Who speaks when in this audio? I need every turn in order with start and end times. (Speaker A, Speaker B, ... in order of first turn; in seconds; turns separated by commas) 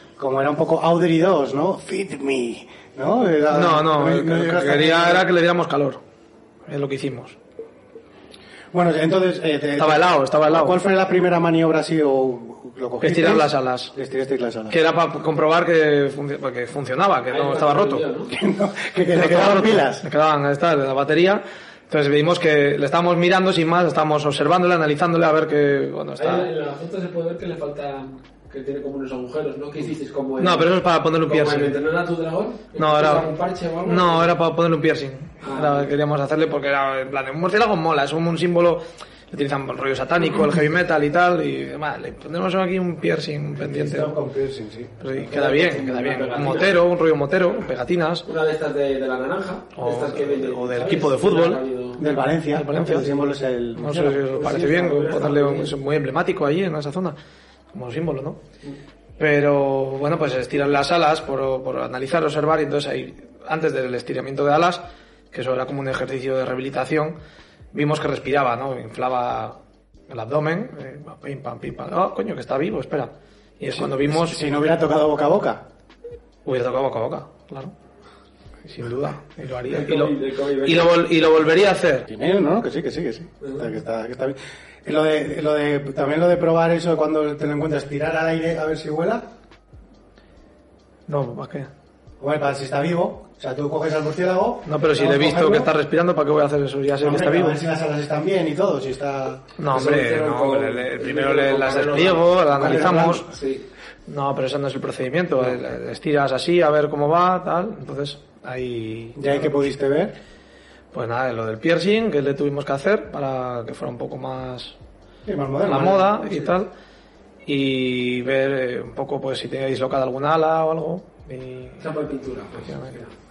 Speaker A: 0.2-5.3, Speaker B: 3.5-6.0, Speaker B: 6.7-7.4, Speaker A: 8.7-14.8, Speaker B: 9.8-10.8, Speaker B: 13.0-13.9, Speaker B: 14.7-18.1, Speaker C: 17.3-18.3, Speaker A: 18.3-20.1, Speaker B: 19.1-26.5, Speaker C: 26.2-30.7, Speaker B: 30.4-31.8, Speaker C: 31.3-34.4, Speaker B: 32.8-33.3, Speaker B: 33.8-44.2, Speaker C: 35.4-35.9, Speaker A: 43.6-45.0, Speaker B: 45.0-48.3, Speaker C: 45.2-46.8, Speaker C: 48.2-52.0, Speaker B: 49.8-51.6, Speaker A: 52.0-54.2, Speaker B: 52.5-53.1, Speaker B: 53.8-57.2, Speaker C: 54.3-55.7, Speaker B: 57.7-58.4, Speaker B: 59.2-67.2, Speaker B: 67.7-69.6, Speaker B: 70.1-74.4, Speaker A: 73.7-75.7, Speaker B: 76.5-77.7, Speaker B: 78.7-82.1, Speaker C: 79.7-81.1, Speaker A: 82.1-89.3, Speaker B: 91.1-91.7, Speaker A: 92.2-95.7, Speaker B: 94.7-97.6, Speaker A: 97.0-99.5, Speaker B: 99.6-103.3, Speaker C: 99.7-103.7, Speaker A: 102.5-103.3, Speaker B: 104.1-109.4, Speaker A: 109.2-110.2, Speaker B: 110.9-114.8, Speaker A: 115.3-116.3, Speaker B: 115.6-116.7, Speaker B: 117.5-121.8, Speaker C: 121.8-123.1, Speaker B: 122.7-123.0